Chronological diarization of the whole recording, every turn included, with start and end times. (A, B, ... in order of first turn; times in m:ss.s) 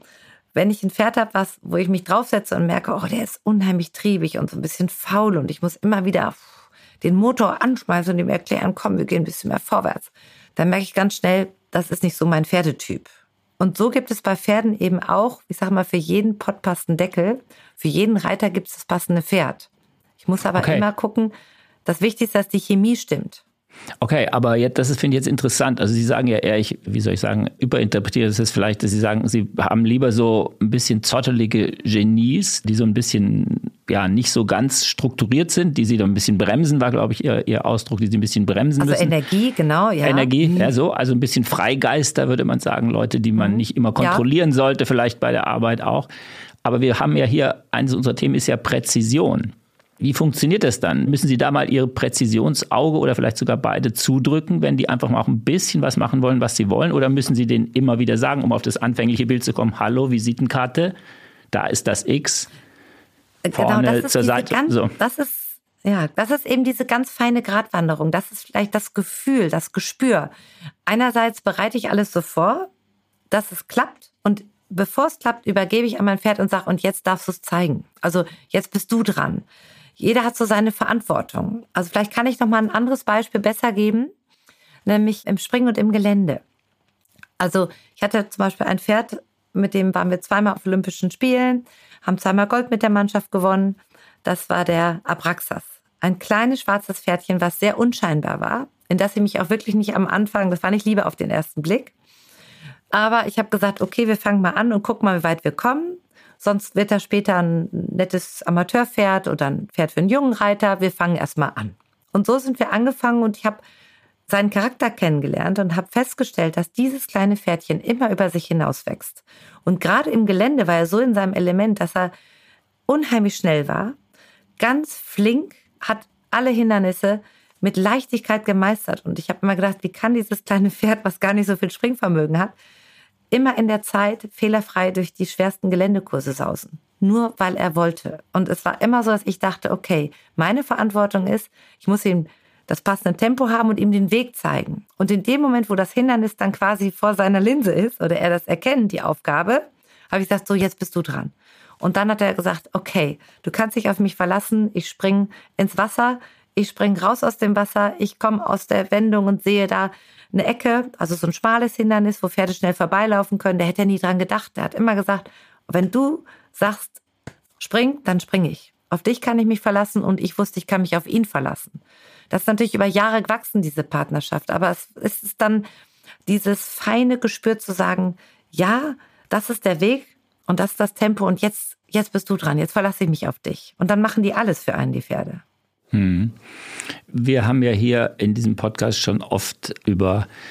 0:00.5-0:19.7 A
0:20.2-0:21.3 A
0:20.6-0:20.9 B
0:21.8-0:23.4 A
0:24.0-0:39.2 B
0:38.8-0:40.7 A
0:40.0-0:46.1 B
0:43.4-0:44.2 A
0:46.6-1:01.0 B
1:01.5-1:02.5 B
1:03.4-1:10.3 A
1:03.5-1:05.0 B
1:10.9-1:12.7 A
1:13.3-1:19.5 A
1:20.0-1:24.1 A
1:24.9-1:26.4 A
1:27.4-1:41.9 A
1:42.9-1:53.6 A
1:54.3-2:02.1 A
2:02.9-2:04.0 A
2:04.6-2:12.5 A
2:13.3-2:47.0 A
2:47.6-2:55.7 A
2:56.3-3:05.4 A
3:05.9-3:06.4 B
3:07.1-3:10.3 B